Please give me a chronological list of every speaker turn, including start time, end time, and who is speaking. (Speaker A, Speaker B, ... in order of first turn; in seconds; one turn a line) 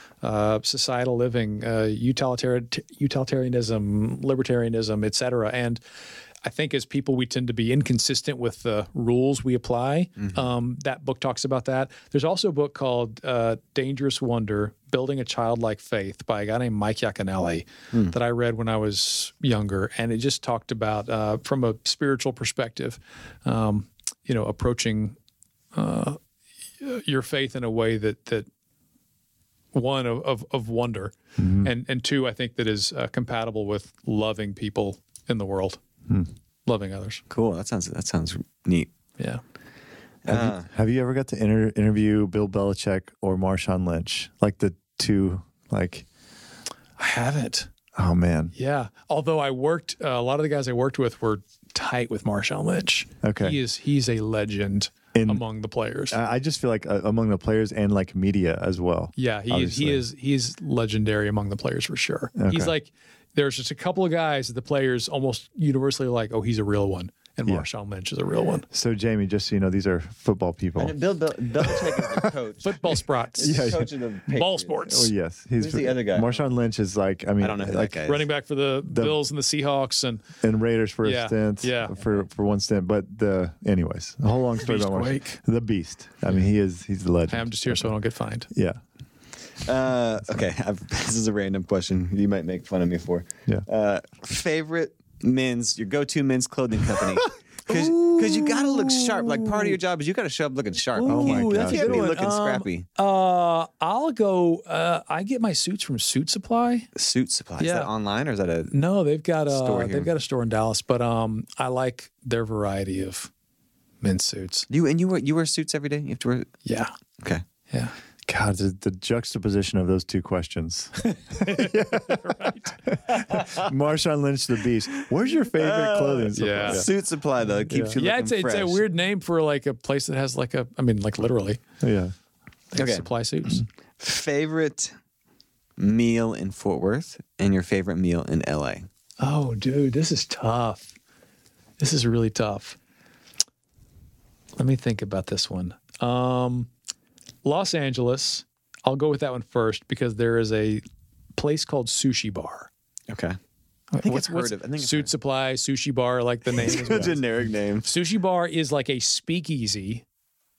Speaker A: 0.2-5.8
Speaker A: 6.4-25.2
Speaker A: 25.7-26.2
Speaker A: 26.8-28.5
Speaker A: 29.7-35.8
Speaker B: 31.4-31.7
Speaker A: 36.7-37.2
Speaker C: 37.3-38.9
Speaker C: 40.2-40.7
Speaker B: 40.3-46.1
Speaker A: 47.0-47.7
Speaker B: 48.0-48.5
Speaker A: 48.5-56.2
Speaker B: 53.2-53.6
Speaker B: 55.1-55.4
Speaker B: 56.1-60.0
Speaker A: 59.2-68.7
Speaker B: 62.4-62.7
Speaker B: 68.7-71.0
Speaker C: 70.8-74.8
Speaker B: 71.6-72.3
Speaker A: 72.6-75.1
Speaker B: 73.4-73.9
Speaker B: 74.9-78.0
Speaker C: 75.6-76.4
Speaker C: 77.4-78.3
Speaker A: 78.0-80.2
Speaker B: 78.9-79.2
Speaker B: 80.4-87.8
Speaker A: 81.0-82.0
Speaker A: 84.6-85.4
Speaker A: 87.3-88.5
Speaker B: 88.5-88.8
Speaker C: 89.6-102.9
Speaker A: 97.7-99.7
Speaker A: 101.0-106.9
Speaker B: 101.1-102.1
Speaker C: 107.0-108.7
Speaker A: 107.6-107.9
Speaker A: 108.7-113.3
Speaker C: 109.5-110.1
Speaker A: 114.0-114.7
Speaker C: 114.7-116.6
Speaker A: 116.7-116.9
Speaker A: 117.7-117.9
Speaker B: 118.3-126.9
Speaker A: 121.0-122.8
Speaker C: 123.2-123.7
Speaker C: 125.0-128.8
Speaker A: 126.3-126.9
Speaker A: 127.9-131.6
Speaker B: 131.8-132.1
Speaker A: 132.7-133.6
Speaker C: 132.8-133.1
Speaker C: 134.0-134.9
Speaker C: 135.8-138.9
Speaker A: 139.2-140.9
Speaker A: 141.8-142.8
Speaker A: 144.6-146.7
Speaker A: 147.4-150.8
Speaker A: 151.4-152.7
Speaker C: 153.1-153.4
Speaker A: 153.9-157.2
Speaker C: 154.0-155.1
Speaker C: 156.6-157.9
Speaker A: 157.8-160.1